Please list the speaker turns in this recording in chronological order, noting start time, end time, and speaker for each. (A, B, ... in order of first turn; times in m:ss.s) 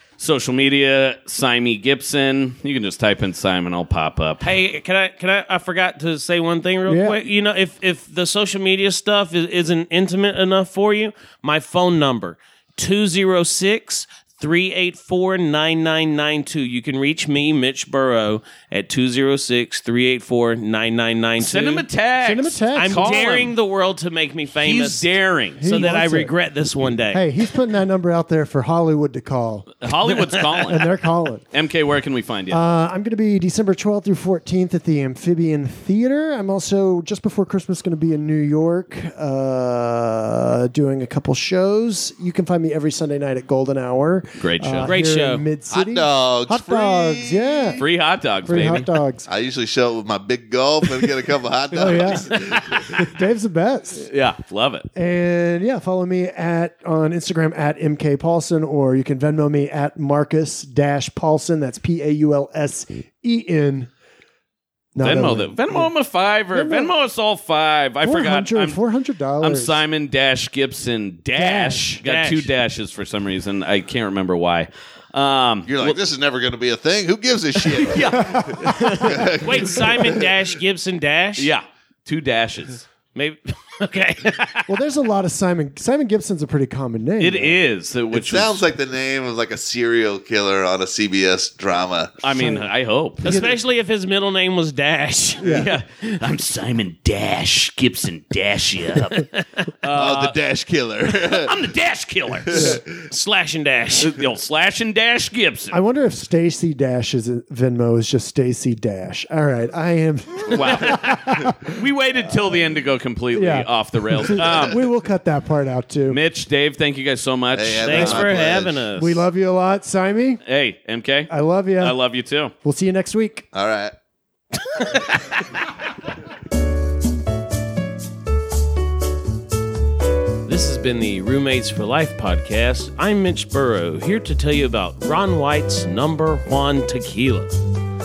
0:00.2-0:04.4 A
0:04.4-0:21.9 B
0:06.9-0:07.2 C
0:21.4-0:23.5 A
0:22.2-0:23.2 C
0:22.8-0:25.1 B
0:24.6-0:25.8 A
0:25.6-0:26.3 C
0:25.6-0:27.2 B
0:27.1-0:29.7 C
0:29.8-0:30.9 A
0:30.7-0:31.4 C
0:31.5-0:32.6 A
0:32.5-0:47.8 C
0:44.4-0:44.9 A
0:44.8-0:45.4 B
0:45.7-0:47.8 D
0:47.8-0:48.9 A
0:48.4-0:49.3 C
0:49.3-0:53.1 D
0:51.8-0:52.4 C
0:51.8-0:53.1 A
0:52.9-0:54.1 C
0:54.0-0:54.9 A
0:55.0-1:03.9 C
1:05.0-1:05.9 C
1:05.0-1:08.8 A
1:06.5-1:06.9 C
1:08.0-1:09.8 C
1:09.4-1:16.0 A
1:11.4-1:12.0 C
1:12.0-1:12.5 B
1:15.7-1:20.3 D
1:17.6-1:19.4 A
1:18.1-1:19.4 C
1:19.4-1:21.5 B
1:21.4-1:22.8 A
1:23.1-1:24.7 B
1:24.7-1:27.6 C
1:27.2-1:28.6 A
1:28.1-1:32.3 D
1:32.2-1:33.4 A
1:32.3-1:32.7 C
1:33.2-1:35.7 B
1:33.2-1:33.6 C
1:35.4-1:35.7 C
1:35.4-1:40.4 A
1:39.3-1:39.7 B
1:39.9-1:41.5 D
1:41.1-1:42.8 A
1:42.5-1:42.8 D
1:42.5-1:42.8 C
1:43.1-1:44.2 B
1:44.0-1:45.8 A
1:45.7-1:51.8 C
1:50.5-1:54.8 A
1:53.3-1:56.2 C
1:56.1-1:58.3 A
1:57.6-1:58.9 D
1:57.8-1:59.2 B
1:59.0-2:00.4 C
2:00.5-2:02.5 A
2:01.3-2:02.0 C
2:02.6-2:03.5 C
2:03.5-2:03.9 D
2:04.8-2:05.2 B
2:10.5-2:17.5 B